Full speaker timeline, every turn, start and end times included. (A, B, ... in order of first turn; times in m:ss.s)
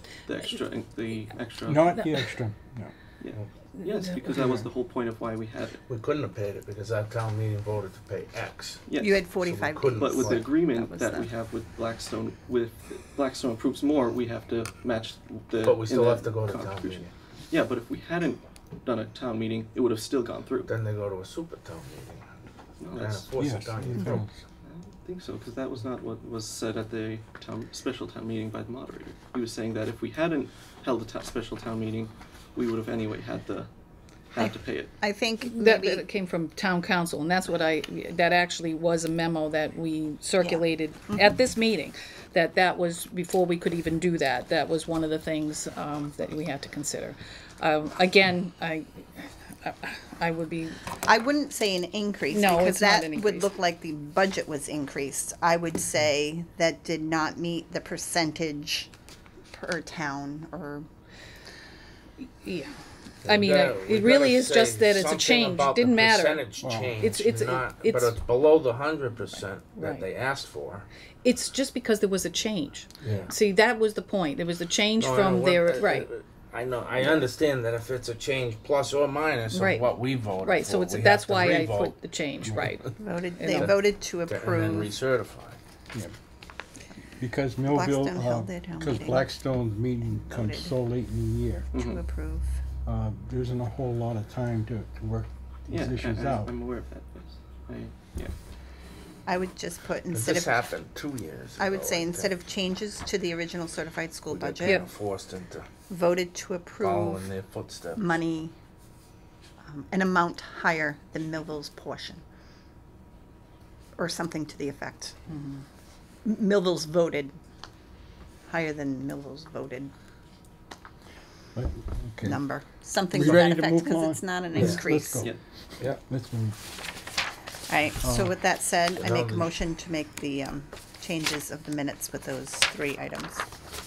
0:00.3-0:02.0 A
0:01.6-0:02.9 B
0:03.2-0:05.8 A
0:05.9-0:08.9 C
0:08.9-0:09.3 A
0:09.0-0:11.3 D
0:09.4-0:10.6 C
0:10.0-0:20.7 A
0:15.6-0:17.1 C
0:20.7-0:24.3 C
0:22.8-0:23.3 A
0:23.4-0:24.3 B
0:24.6-0:33.7 A
0:34.3-0:34.9 A
0:34.4-0:36.1 D
0:35.4-0:50.8 E
0:51.0-0:58.9 D
0:52.3-0:53.5 E
0:59.5-1:00.9 D
1:02.4-1:06.4 E
1:03.2-1:10.9 C
1:06.6-1:07.0 B
1:07.0-1:08.2 E
1:09.8-1:10.1 E
1:11.2-1:16.1 E
1:13.0-1:13.3 C
1:15.0-1:21.9 C
1:19.5-1:19.9 E
1:20.4-1:23.8 E
1:23.0-1:25.0 D
1:24.2-1:25.6 C
1:27.2-1:31.7 B
1:27.7-1:29.3 D
1:30.0-1:30.8 D
1:31.7-1:32.0 A
1:31.7-1:32.6 D
1:32.8-1:36.5 B
1:35.7-1:38.3 A
1:39.3-1:40.7 D
1:40.1-1:42.4 C
1:41.6-1:44.9 D
1:44.3-1:45.7 C
1:45.9-1:47.3 D
1:46.8-1:48.0 C
1:48.0-1:48.6 D
1:49.6-1:52.2 D
1:54.0-1:55.2 D
1:55.3-1:55.6 E
1:56.2-1:57.4 D
1:58.5-1:59.9 D
2:01.5-2:02.4 B
2:02.2-2:05.3 D
2:03.1-2:06.6 B
2:04.6-2:04.9 C
2:07.7-2:13.4 D
2:08.0-2:08.3 B
2:09.0-2:09.5 C